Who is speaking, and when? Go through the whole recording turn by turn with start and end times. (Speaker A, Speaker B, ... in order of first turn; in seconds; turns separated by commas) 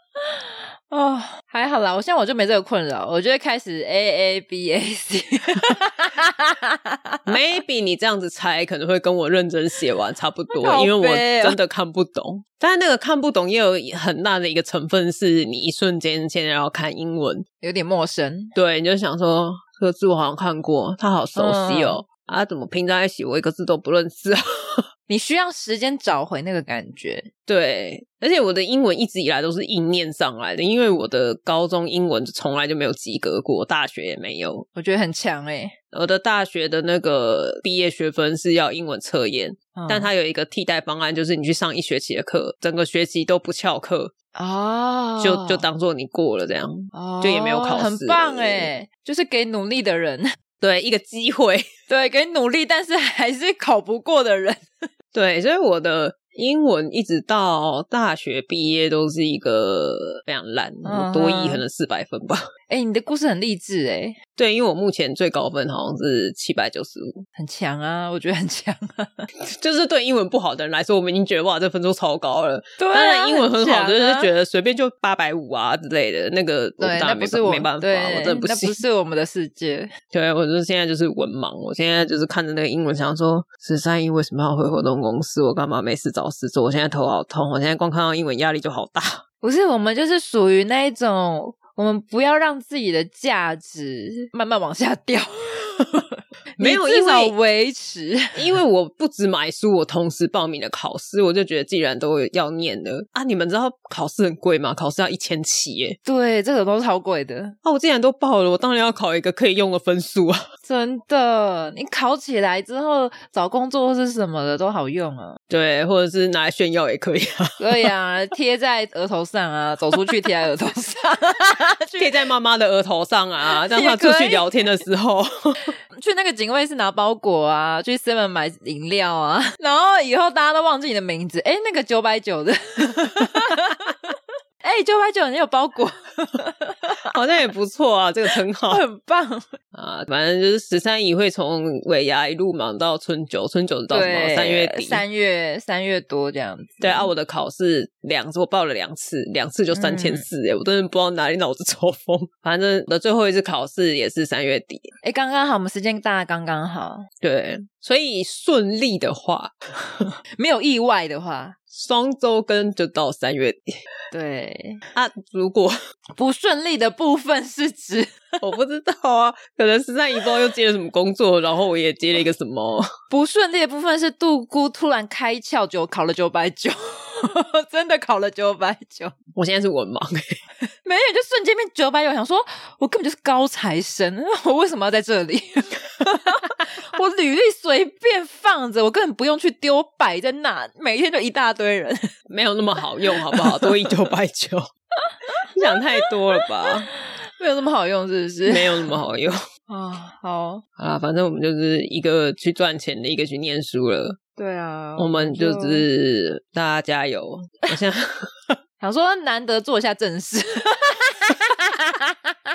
Speaker A: 0.9-7.2, Speaker B: 7.2-17.4, Speaker A: 10.5-11.6, Speaker A: 17.6-18.5, Speaker B: 18.5-24.8, Speaker A: 21.4-22.0, Speaker A: 25.1-27.3, Speaker B: 27.5-34.6, Speaker A: 34.7-35.7, Speaker B: 35.9-44.1, Speaker A: 39.7-40.1, Speaker A: 44.3-45.6, Speaker B: 45.2-48.7, Speaker A: 46.9-50.3, Speaker B: 50.6-51.7, Speaker A: 51.9-54.7, Speaker B: 55.1-62.4, Speaker A: 60.8-61.6, Speaker A: 62.7-64.2, Speaker B: 64.4-67.1, Speaker A: 67.3-69.3, Speaker B: 69.4-78.8, Speaker A: 72.8-74.3, Speaker A: 76.8-79.9, Speaker B: 80.1-89.2, Speaker A: 89.4-98.4, Speaker B: 96.6-97.3, Speaker B: 98.3-106.0, Speaker A: 106.0-107.5, Speaker B: 107.6-110.4, Speaker A: 110.6-115.4, Speaker B: 115.5-117.9, Speaker A: 117.6-122.1, Speaker B: 122.0-125.7, Speaker A: 123.5-124.5, Speaker A: 126.0-137.1, Speaker B: 137.1-138.8, Speaker A: 138.7-139.5, Speaker B: 139.7-145.0, Speaker A: 143.9-147.1, Speaker B: 146.8-154.9, Speaker A: 149.7-150.2, Speaker A: 155.0-157.0, Speaker B: 157.2-159.5, Speaker A: 160.3-161.6, Speaker B: 161.7-163.7, Speaker A: 164.1-164.8, Speaker B: 164.9-165.7, Speaker A: 166.2-168.2, Speaker B: 168.4-172.9, Speaker A: 173.1-179.1, Speaker B: 179.3-180.4, Speaker A: 180.8-192.1, Speaker B: 192.3-194.7, Speaker A: 193.3-193.7, Speaker B: 195.5-196.9, Speaker A: 196.9-198.9, Speaker B: 198.4-199.4, Speaker A: 199.7-200.6, Speaker B: 200.8-204.2, Speaker A: 204.4-205.8, Speaker B: 205.0-208.5, Speaker A: 208.8-212.1